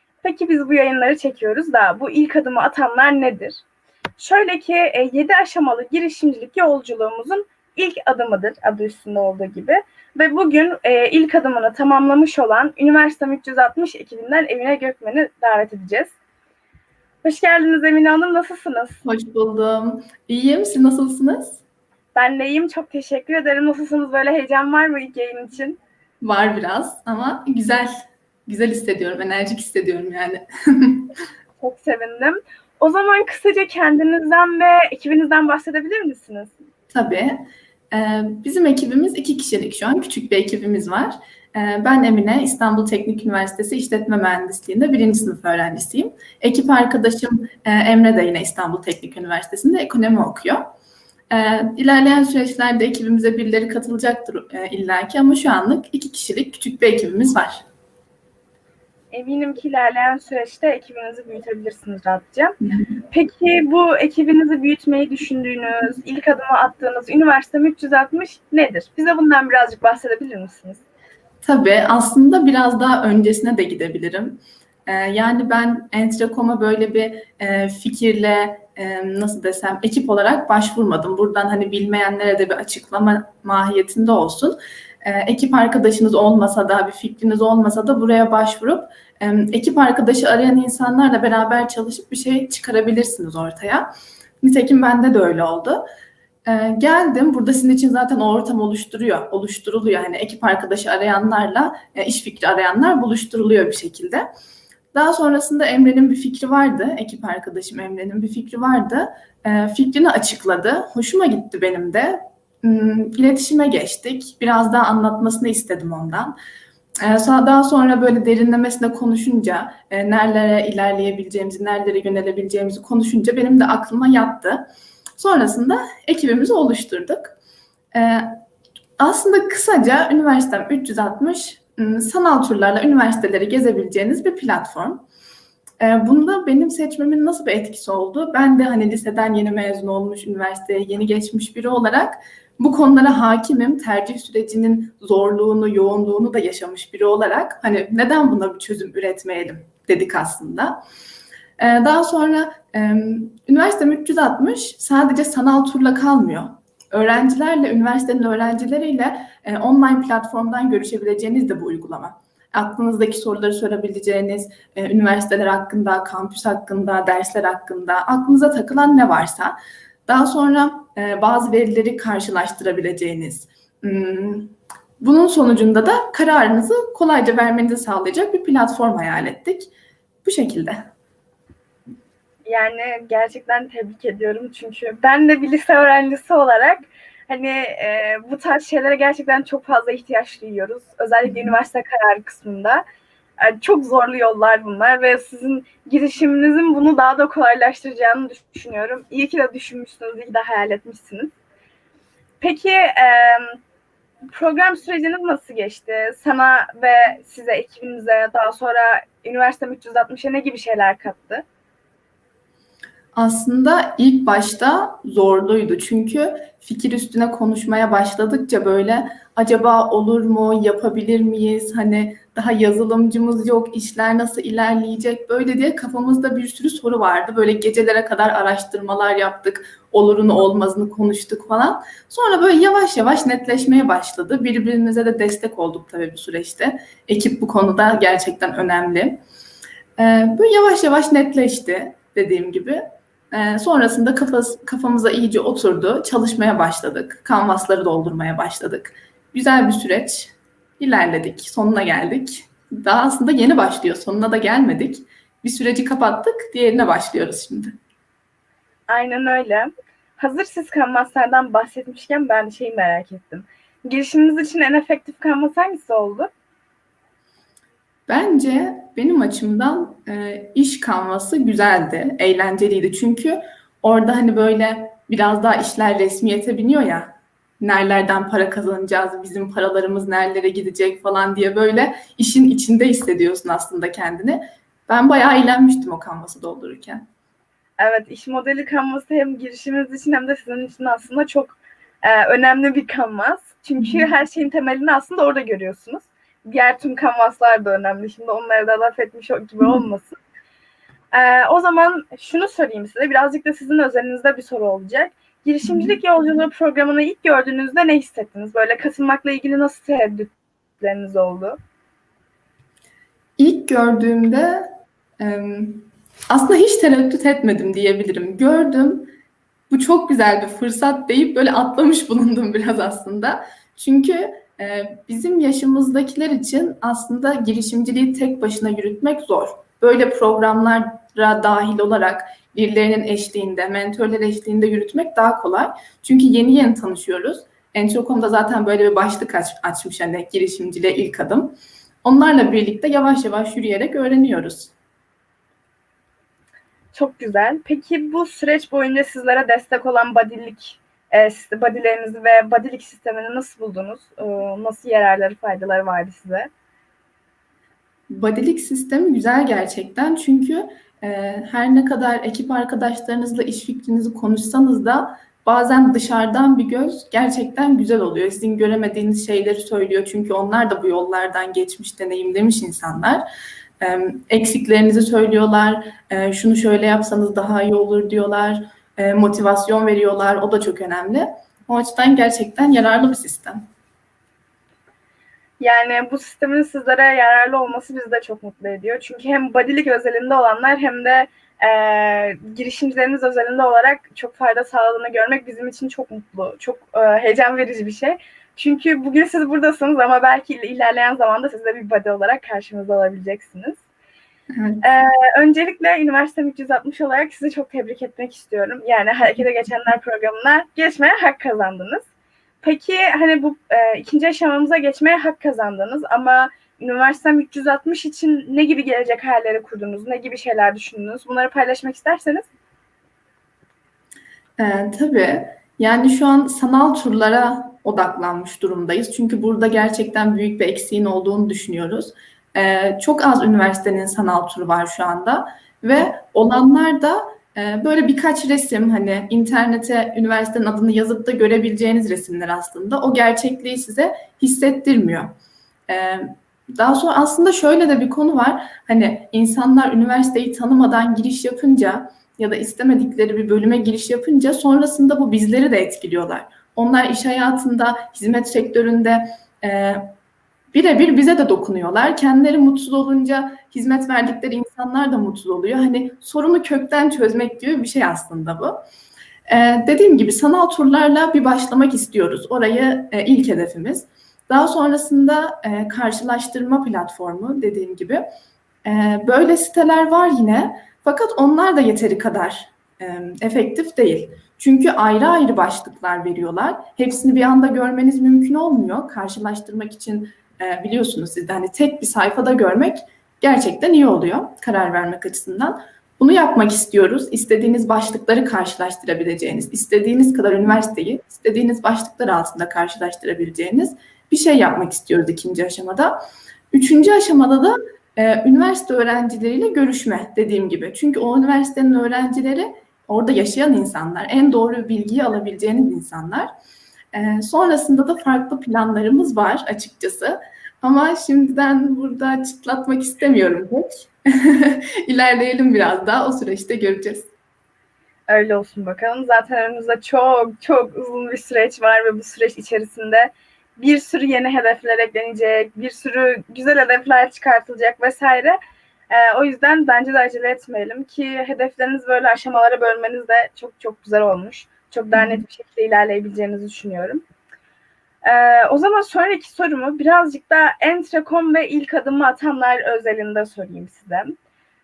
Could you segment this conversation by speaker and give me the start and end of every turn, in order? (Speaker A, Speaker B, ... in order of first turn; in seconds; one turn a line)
Speaker A: 0.2-3.6
Speaker A: 4.2-16.2
Speaker A: 17.2-19.0
Speaker B: 19.1-21.6
Speaker A: 22.1-25.8
Speaker B: 26.2-27.9
Speaker B: 28.5-31.1
Speaker A: 31.6-36.5
Speaker B: 36.9-50.7
Speaker B: 51.3-57.6
Speaker A: 59.1-62.6
Speaker A: 63.1-70.8
Speaker B: 71.4-95.8
Speaker B: 96.5-104.3
Speaker B: 104.9-116.3
Speaker B: 117.0-124.7
Speaker B: 125.2-127.4
Speaker B: 127.9-128.4
Speaker B: 129.0-135.1
Speaker B: 135.8-150.8
Speaker B: 151.6-169.6
Speaker B: 170.1-179.7
Speaker B: 180.2-180.8
Speaker A: 182.5-192.8
Speaker B: 191.3-191.5
Speaker A: 193.4-201.3
Speaker A: 202.4-203.6
Speaker A: 204.3-211.4
Speaker B: 213.2-239.2
Speaker B: 240.0-257.7
Speaker A: 258.9-266.3
Speaker B: 268.1-287.0
Speaker A: 287.8-300.2
Speaker B: 293.8-294.1
Speaker A: 301.1-311.6
Speaker B: 305.6-306.0
Speaker B: 313.4-319.1
Speaker B: 319.7-344.7
Speaker A: 346.9-356.5
Speaker B: 358.1-373.2
Speaker B: 373.8-383.6
Speaker A: 385.6-403.8
Speaker B: 404.6-404.8
Speaker A: 404.8-412.1
Speaker A: 412.6-422.5
Speaker B: 424.6-445.3
Speaker B: 445.9-460.1
Speaker B: 460.7-468.8
Speaker B: 469.5-478.2
Speaker B: 478.9-506.2
Speaker B: 506.7-516.5
Speaker B: 517.1-527.3
Speaker A: 528.3-538.6
Speaker A: 539.1-547.2
Speaker B: 545.1-545.4
Speaker A: 548.2-554.4